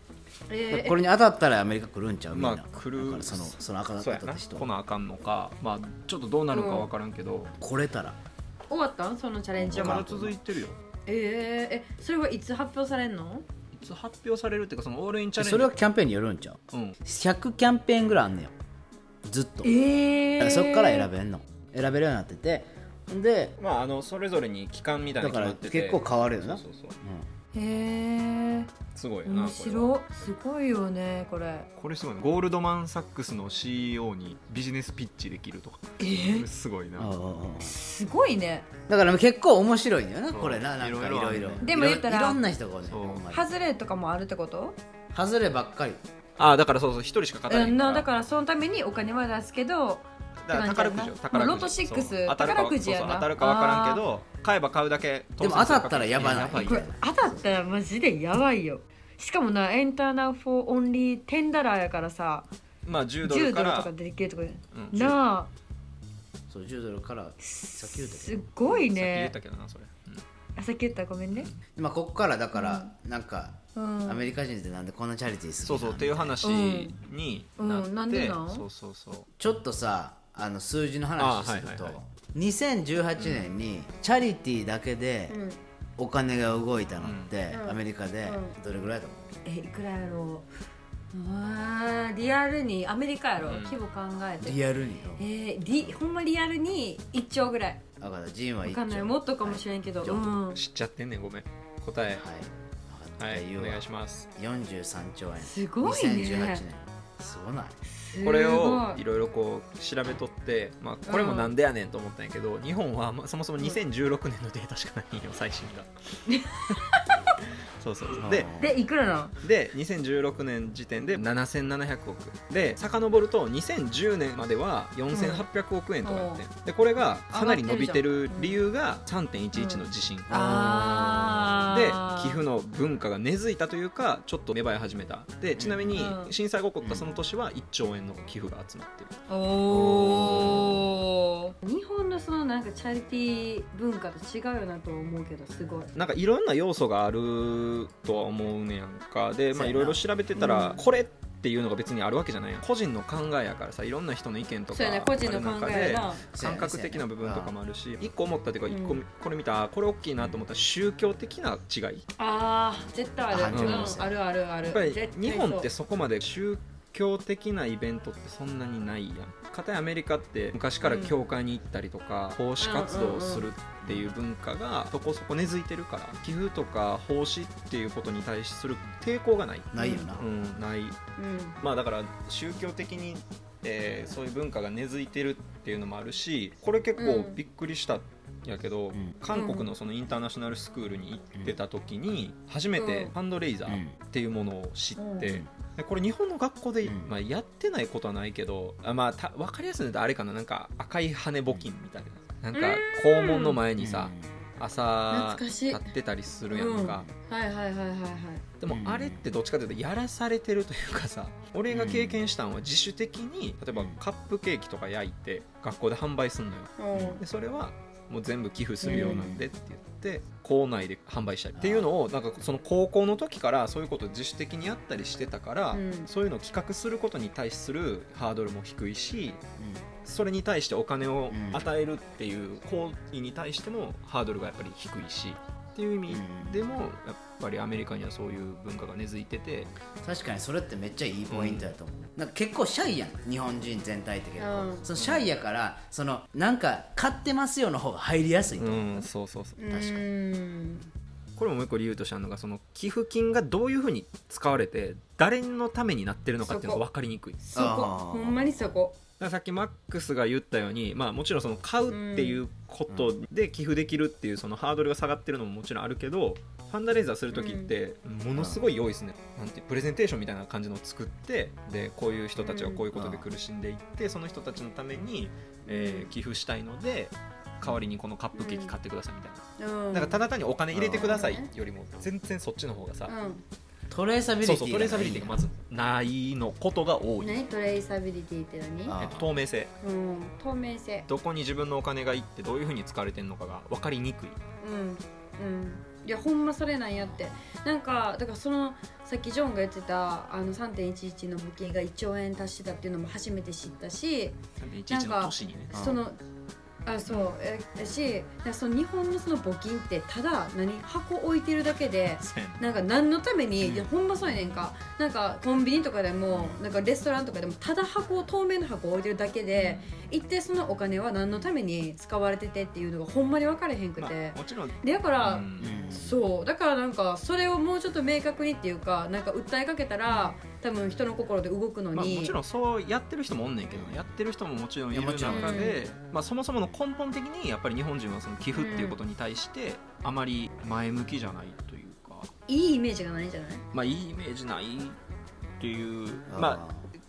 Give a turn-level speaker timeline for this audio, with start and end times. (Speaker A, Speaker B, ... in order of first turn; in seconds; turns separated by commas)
Speaker A: 0.5-1.0, Speaker B: 0.7-4.7, Speaker C: 2.3-7.5, Speaker A: 6.5-6.9, Speaker B: 7.6-8.2, Speaker A: 8.7-10.0, Speaker B: 9.6-10.3, Speaker C: 9.7-10.8, Speaker A: 11.1-13.4, Speaker C: 13.7-15.7, Speaker B: 15.4-18.5, Speaker C: 16.7-17.0, Speaker B: 19.2-19.7, Speaker A: 19.6-21.1, Speaker B: 20.4-23.5, Speaker C: 23.6-27.0, Speaker B: 25.2-27.3, Speaker A: 27.5-28.7, Speaker C: 28.9-30.3, Speaker A: 29.2-31.7, Speaker C: 31.8-37.1, Speaker A: 36.0-36.5, Speaker B: 37.0-37.7, Speaker A: 37.6-38.7, Speaker B: 38.9-43.5, Speaker C: 40.3-41.8, Speaker A: 41.6-42.4, Speaker C: 42.8-43.3, Speaker A: 43.3-44.8, Speaker B: 45.1-46.0, Speaker C: 46.4-48.1, Speaker A: 47.5-54.0, Speaker C: 50.4-56.9, Speaker B: 55.4-57.6, Speaker A: 56.5-62.5, Speaker C: 62.8-63.9, Speaker A: 63.2-65.5, Speaker C: 64.7-65.2, Speaker B: 66.5-68.5, Speaker A: 67.4-69.3, Speaker C: 68.6-70.2, Speaker A: 70.6-71.5, Speaker C: 71.3-71.6, Speaker B: 71.8-76.4, Speaker A: 72.5-72.9, Speaker A: 73.7-74.2, Speaker C: 75.6-79.3, Speaker A: 76.4-77.0, Speaker A: 77.6-78.7, Speaker B: 79.4-85.4, Speaker C: 81.2-82.0, Speaker C: 83.2-83.5, Speaker A: 85.3-85.6, Speaker B: 86.0-89.2, Speaker C: 87.0-87.3, Speaker A: 87.5-88.5, Speaker A: 89.4-90.5, Speaker A: 91.1-94.6, Speaker C: 93.4-93.8, Speaker B: 94.4-96.0, Speaker A: 95.2-97.8, Speaker B: 98.0-100.3, Speaker A: 98.6-100.6, Speaker C: 100.5-102.2, Speaker B: 102.1-103.8, Speaker C: 103.2-104.3, Speaker B: 104.3-107.8, Speaker A: 105.4-106.6, Speaker A: 107.9-109.0, Speaker C: 108.2-115.9, Speaker A: 111.1-111.5, Speaker A: 116.3-117.0, Speaker C: 117.8-118.5, Speaker B: 118.2-118.7, Speaker A: 118.6-119.3, Speaker C: 119.4-130.3, Speaker A: 125.1-125.5, Speaker A: 126.0-126.4, Speaker A: 127.3-128.6, Speaker A: 129.5-132.4, Speaker B: 130.3-131.5, Speaker C: 131.7-139.2, Speaker B: 135.6-136.1, Speaker A: 135.9-136.3, Speaker B: 136.8-137.1, Speaker A: 139.3-145.9, Speaker C: 139.7-140.7, Speaker B: 139.7-140.7, Speaker C: 145.9-162.1, Speaker B: 149.5-150.0, Speaker A: 150.3-150.8, Speaker A: 154.7-156.2, Speaker B: 156.3-157.5, Speaker A: 158.7-159.0, Speaker B: 160.2-160.4, Speaker A: 162.2-165.7, Speaker B: 163.3-164.2, Speaker C: 163.5-164.0, Speaker C: 164.7-181.0, Speaker A: 170.8-171.2, Speaker A: 172.6-173.5, Speaker B: 173.8-174.1, Speaker B: 179.7-180.2, Speaker A: 179.8-180.1, Speaker A: 181.2-181.6, Speaker C: 181.6-207.1, Speaker A: 186.9-187.4, Speaker A: 189.3-189.7, Speaker A: 192.8-193.1, Speaker B: 193.7-194.0, Speaker A: 195.0-195.3, Speaker B: 195.2-195.5, Speaker B: 196.8-197.1, Speaker A: 202.5-203.6, Speaker B: 203.8-204.3, Speaker A: 205.1-205.8, Speaker A: 206.5-208.4, Speaker C: 208.6-229.4, Speaker B: 208.7-209.2, Speaker B: 211.7-212.2, Speaker B: 213.7-214.0, Speaker A: 216.8-217.2, Speaker B: 216.9-217.2, Speaker A: 218.8-219.2, Speaker B: 218.8-219.4, Speaker B: 221.6-221.9, Speaker A: 225.7-226.1, Speaker B: 229.6-229.8, Speaker C: 230.0-239.7, Speaker B: 231.3-231.6, Speaker B: 236.1-236.8, Speaker B: 240.0-249.1, Speaker C: 241.3-241.7, Speaker A: 244.4-244.8, Speaker C: 244.9-245.3, Speaker C: 248.6-249.6, Speaker A: 249.6-250.9, Speaker B: 249.7-250.1, Speaker C: 251.4-257.4, Speaker A: 256.4-256.8, Speaker A: 257.4-258.9, Speaker B: 257.5-258.8, Speaker C: 259.2-283.1, Speaker A: 261.9-262.4, Speaker A: 267.3-267.7, Speaker B: 268.3-268.6, Speaker A: 272.4-272.8, Speaker B: 272.9-273.3, Speaker A: 275.7-276.1, Speaker A: 278.3-278.8, Speaker A: 279.6-280.2, Speaker B: 280.7-281.2, Speaker A: 280.9-281.5, Speaker A: 283.1-283.4, Speaker B: 283.9-285.4, Speaker C: 284.4-287.4, Speaker A: 287.2-289.0, Speaker B: 288.9-289.3, Speaker C: 289.0-289.7, Speaker A: 289.8-291.1, Speaker C: 291.1-294.4, Speaker A: 294.6-304.4, Speaker B: 297.0-297.2, Speaker C: 304.6-305.8, Speaker A: 304.9-306.2, Speaker B: 305.7-306.0, Speaker A: 306.8-332.4, Speaker C: 312.1-312.6, Speaker B: 313.6-313.9, Speaker B: 316.3-316.6, Speaker C: 319.6-319.9, Speaker C: 324.0-325.8, Speaker B: 325.6-326.2, Speaker C: 331.9-342.3, Speaker B: 333.7-334.1, Speaker B: 334.9-335.7, Speaker A: 335.3-335.8, Speaker A: 338.5-339.0, Speaker A: 342.5-343.6, Speaker C: 343.7-345.0, Speaker C: 345.6-346.6, Speaker B: 346.3-346.9